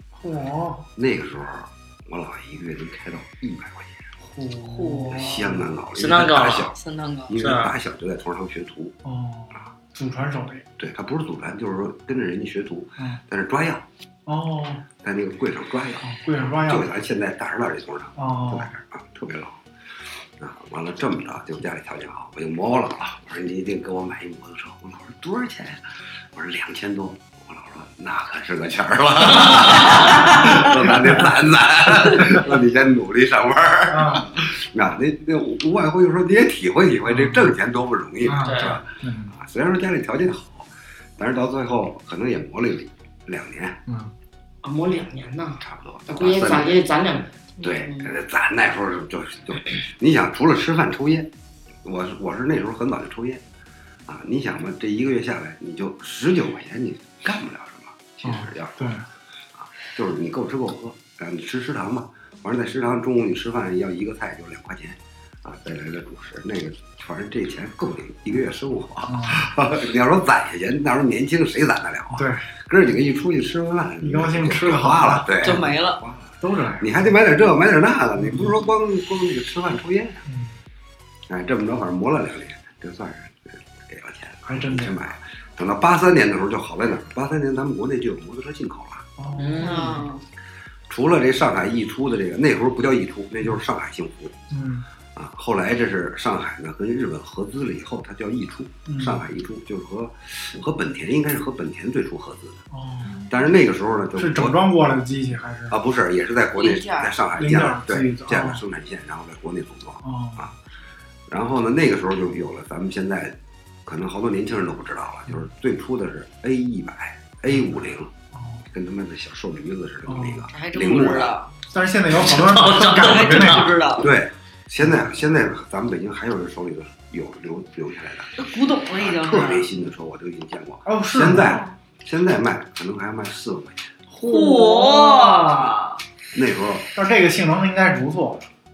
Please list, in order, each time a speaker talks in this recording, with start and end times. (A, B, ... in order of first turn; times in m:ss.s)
0:00.2-0:00.8 A
0:01.0-0:04.1 B
0:04.2-0:05.6 A
0:04.6-0:05.4 C
0:05.1-0:09.0 B
0:06.0-0:06.7 D
0:06.8-0:07.3 C
0:07.3-0:07.7 D
0:09.0-0:10.6 A
0:10.8-0:13.8 B
0:14.2-0:14.8 A
0:15.0-0:19.6 B
0:16.0-0:16.9 A
0:18.2-0:18.7 A
0:20.4-0:43.8 B
0:33.9-0:34.3 A
0:37.0-0:37.5 A
0:38.2-0:39.3 A
0:38.4-0:38.8 D
0:43.9-0:44.1 A
0:44.6-0:47.3 D
0:45.6-0:46.8 B
0:47.6-0:48.1 C
0:47.6-0:51.3 B
0:51.8-0:53.4 B
0:54.1-0:59.0 B
0:58.2-0:59.0 A
0:59.6-1:20.2 B
1:09.1-1:09.5 A
1:12.1-1:12.4 A
1:14.0-1:15.3 A
1:15.4-1:16.0 C
1:16.4-1:16.9 A
1:18.2-1:18.5 A
1:20.2-1:20.5 A
1:21.3-1:29.1 B
1:24.4-1:25.0 A
1:29.2-1:30.0 A
1:29.4-1:30.1 D
1:29.6-1:30.2 C
1:30.9-1:34.4 B
1:34.5-1:34.8 A
1:35.1-1:42.6 B
1:38.8-1:39.2 A
1:42.7-1:43.2 A
1:43.1-1:43.3 C
1:43.2-1:44.6 B
1:44.2-1:45.8 A
1:45.7-1:50.5 B
1:46.6-1:47.2 C
1:47.4-1:48.6 A
1:50.0-1:50.5 A
1:51.3-1:58.1 B
1:58.3-1:58.6 A
1:58.7-2:01.4 B
2:00.1-2:00.4 A
2:00.5-2:01.5 C
2:01.7-2:03.8 A
2:02.1-2:03.7 D
2:02.9-2:04.1 C
2:04.0-2:14.0 B
2:08.4-2:09.7 C
2:10.8-2:11.6 A
2:14.2-2:15.7 A
2:14.2-2:16.0 C
2:16.3-2:16.9 B
2:16.9-2:18.4 A